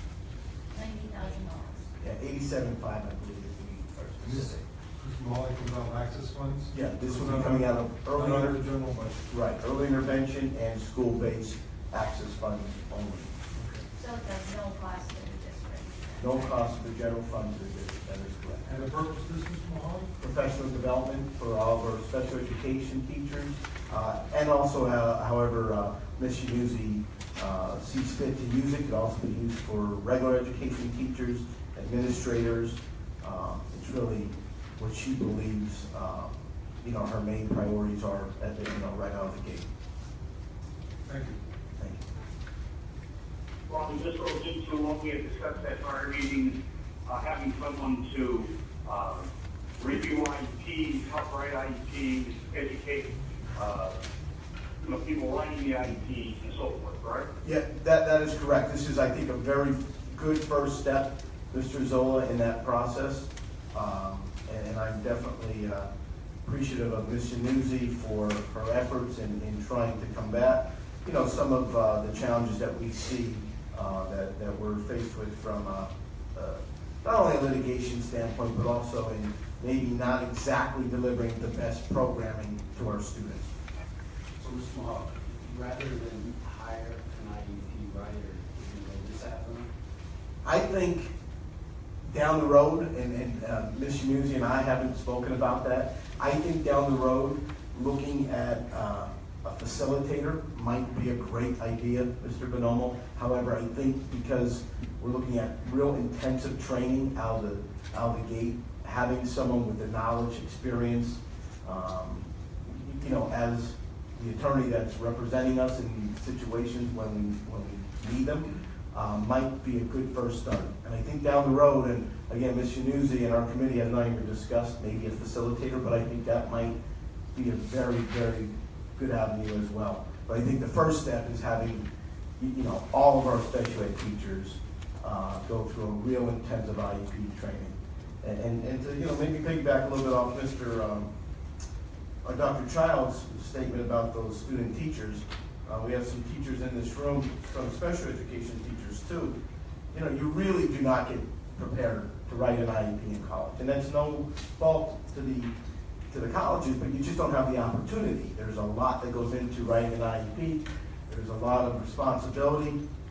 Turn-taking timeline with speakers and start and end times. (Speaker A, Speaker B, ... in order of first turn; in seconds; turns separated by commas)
Speaker A: 0.7-1.9, Speaker B: 2.0-4.6, Speaker C: 4.2-9.3, Speaker B: 6.7-8.6, Speaker B: 9.3-13.3, Speaker C: 13.6-13.8, Speaker A: 14.0-16.7, Speaker B: 16.2-18.7, Speaker C: 18.6-20.1, Speaker B: 20.2-39.7, Speaker C: 41.1-41.4, Speaker D: 43.7-53.9, Speaker D: 54.8-57.3, Speaker B: 57.4-65.9, Speaker B: 66.5-83.5, Speaker E: 84.4-89.7, Speaker B: 90.4-91.1, Speaker B: 92.1-126.8, Speaker B: 127.3-131.9, Speaker B: 132.4-141.1, Speaker B: 142.2-149.4, Speaker B: 149.9-155.5, Speaker B: 156.1-162.8